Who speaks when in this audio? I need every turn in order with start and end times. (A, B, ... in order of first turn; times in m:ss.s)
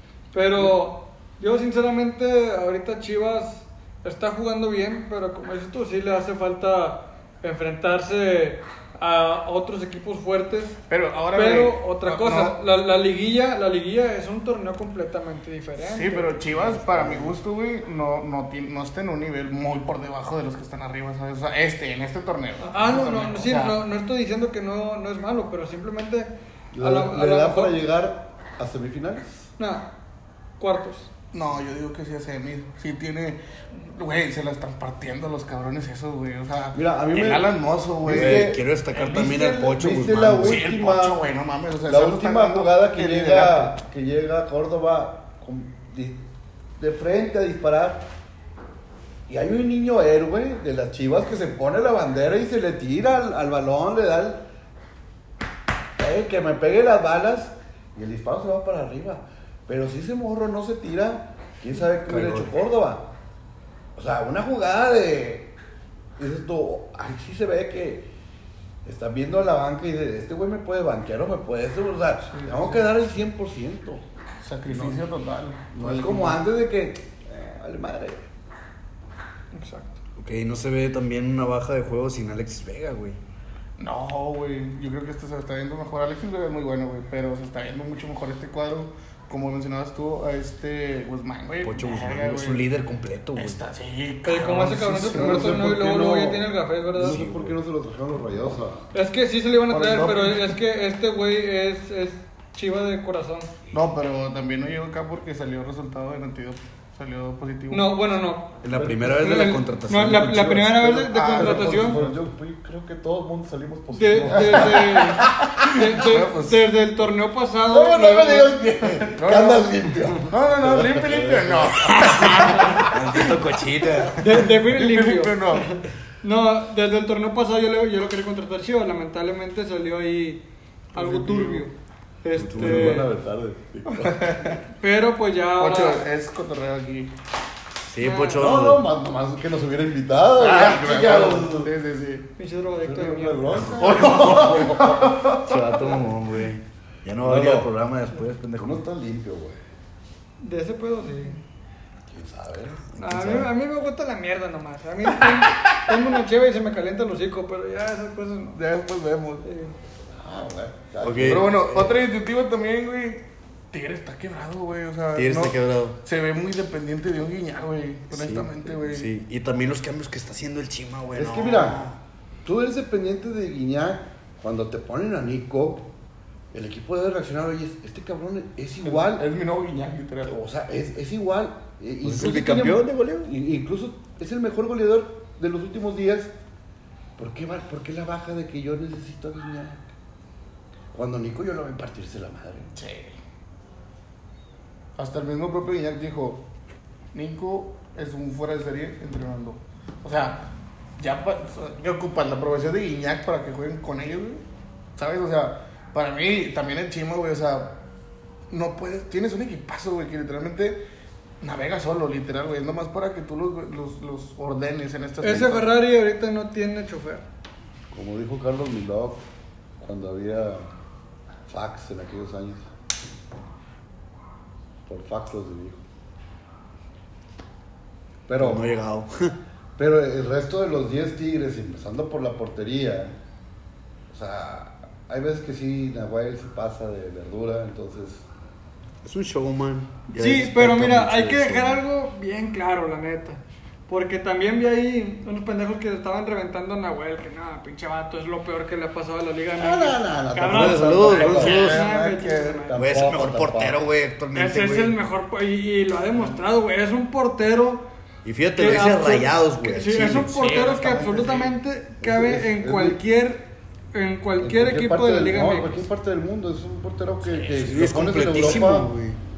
0:00.3-0:10.8 A
0:10.9-0:12.6 B
0:11.3-0:16.4 A
0:15.8-0:23.8 B
0:16.7-0:17.3 C
0:22.6-0:27.8 A
0:26.7-0:29.5 C
0:29.6-0:29.9 A
0:30.6-0:31.1 A
0:31.3-0:39.3 B
0:36.7-0:41.2 C
0:38.0-0:40.7 D
0:40.4-0:43.8 B
0:41.8-0:46.2 C
0:46.8-0:48.1 C
0:49.3-0:54.4 C
0:56.0-1:03.1 C
1:02.1-1:02.5 D
1:04.0-1:05.5 C
1:06.2-1:08.1 C
1:08.8-1:14.0 C
1:12.3-1:12.9 B
1:14.4-1:16.4 B
1:14.7-1:15.0 C
1:15.7-1:18.2 C
1:19.5-1:20.0 A
1:20.2-1:23.2 D
1:23.8-1:32.6 B
1:31.6-1:33.6 D
1:33.4-1:35.7 B
1:34.2-1:37.2 A
1:35.0-1:38.8 C
1:37.0-1:37.6 D
1:38.9-1:43.5 A
1:39.7-1:40.6 B
1:43.7-1:48.0 B
1:47.7-1:48.5 A
1:48.6-1:50.8 D
1:48.7-1:49.1 C
1:49.1-1:52.0 A
1:50.6-1:55.5 C
1:51.1-1:52.2 B
1:53.9-1:58.6 A
1:54.3-1:55.1 B
1:55.8-1:56.7 B
1:57.7-2:01.1 C
1:58.6-1:59.7 B
2:00.2-2:03.1 B
2:01.8-2:04.2 D
2:04.2-2:10.4 A
2:04.4-2:05.7 B
2:10.9-2:11.7 B
2:10.9-2:13.1 A
2:12.3-2:13.0 D
2:12.5-2:14.2 C
2:13.9-2:14.6 B
2:14.8-2:16.0 A
2:15.6-2:17.1 B
2:17.9-2:18.8 D
2:18.0-2:18.5 A
2:18.4-2:21.7 C
2:20.4-2:22.3 B
2:22.4-2:23.8 A
2:22.8-2:25.1 C
2:23.8-2:25.5 B
2:25.3-2:28.8 D
2:27.2-2:27.7 C
2:28.6-2:29.6 C
2:30.4-2:31.4 A
2:32.1-2:32.8 C
2:32.9-2:33.5 D
2:33.0-2:38.6 A
2:38.5-2:39.4 B
2:39.4-2:39.7 A
2:40.1-2:41.9 C
2:41.0-2:41.5 D
2:41.2-2:49.1 B
2:45.1-2:46.0 D
2:48.1-2:52.0 D
2:51.1-2:51.9 C
2:52.4-2:55.9 C
2:56.5-2:59.2 C
2:58.8-3:00.4 B
3:00.3-3:06.3 C
3:02.0-3:03.3 D
3:07.2-3:09.9 C
3:10.9-3:12.7 C
3:12.7-3:13.2 B
3:15.0-3:16.4 B
3:17.1-3:20.4 B
3:21.0-3:24.4 B
3:25.0-3:27.8 B
3:28.5-3:30.8 B
3:31.4-3:35.7 B
3:35.2-3:37.2 A
3:37.9-3:39.2 C
3:39.8-3:40.7 C
3:41.5-3:42.7 C
3:44.9-3:45.8 C
3:48.3-3:48.7 C
3:48.4-3:49.4 D
3:49.8-3:53.1 C
3:54.1-3:58.2 C
3:59.0-4:01.8 D
4:00.1-4:12.8 A
4:09.6-4:13.8 C
4:10.4-4:11.8 D
4:11.1-4:12.6 B
4:12.7-4:15.0 D
4:14.3-4:17.9 A
4:18.2-4:20.4 D
4:18.6-4:25.8 A
4:20.3-4:21.5 B
4:22.0-4:23.0 C
4:24.4-4:28.9 C
4:27.2-4:27.7 B
4:27.6-4:29.2 D